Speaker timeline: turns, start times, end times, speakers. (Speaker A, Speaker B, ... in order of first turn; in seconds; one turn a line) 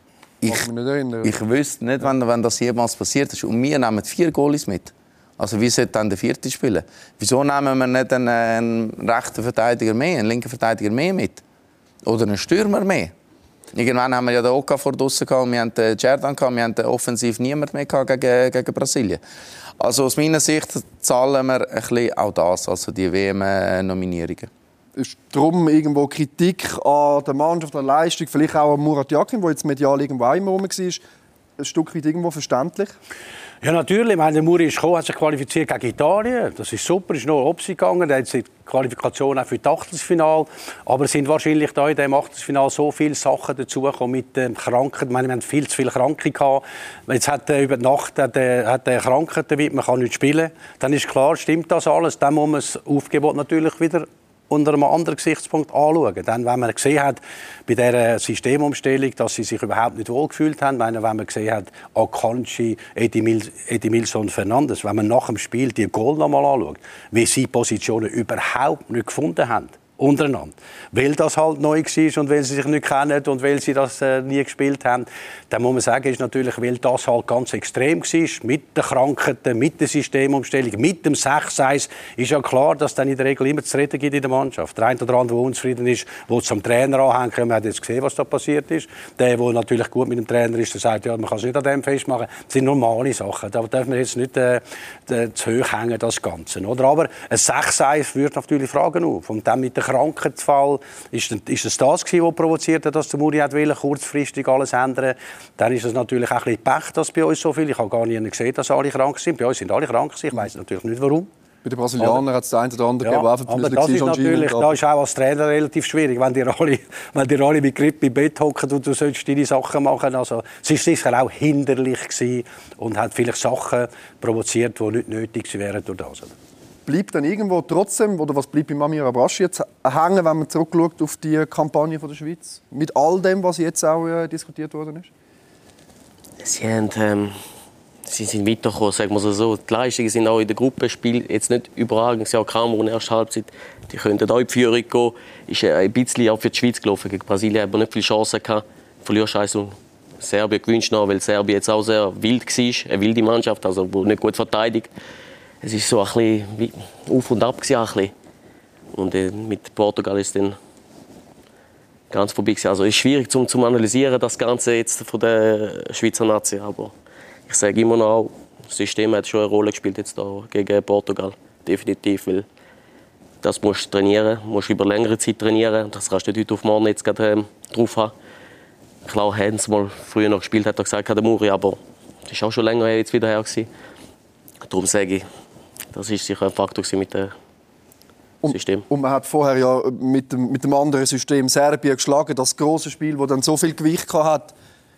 Speaker A: 0.5-1.3
Speaker B: 1.2-11.4
Speaker B: 12.1-13.1
Speaker B: 13.7-19.2
Speaker B: 19.8-24.5
Speaker A: 25.0-31.0
Speaker A: 31.6-32.9
Speaker C: 33.6-111.3
Speaker A: 111.6-114.7
Speaker C: 113.0-126.3
Speaker A: 126.8-135.1
Speaker D: 136.4-137.3
Speaker D: 138.1-154.9
Speaker D: 155.6-158.1
Speaker D: 158.9-160.6
Speaker D: 162.1-166.9
Speaker D: 167.5-172.5
Speaker D: 173.4-178.1
Speaker D: 179.1-183.7
Speaker D: 184.7-185.3
Speaker D: 185.9-187.3
Speaker A: 188.4-194.5
Speaker D: 188.5-188.8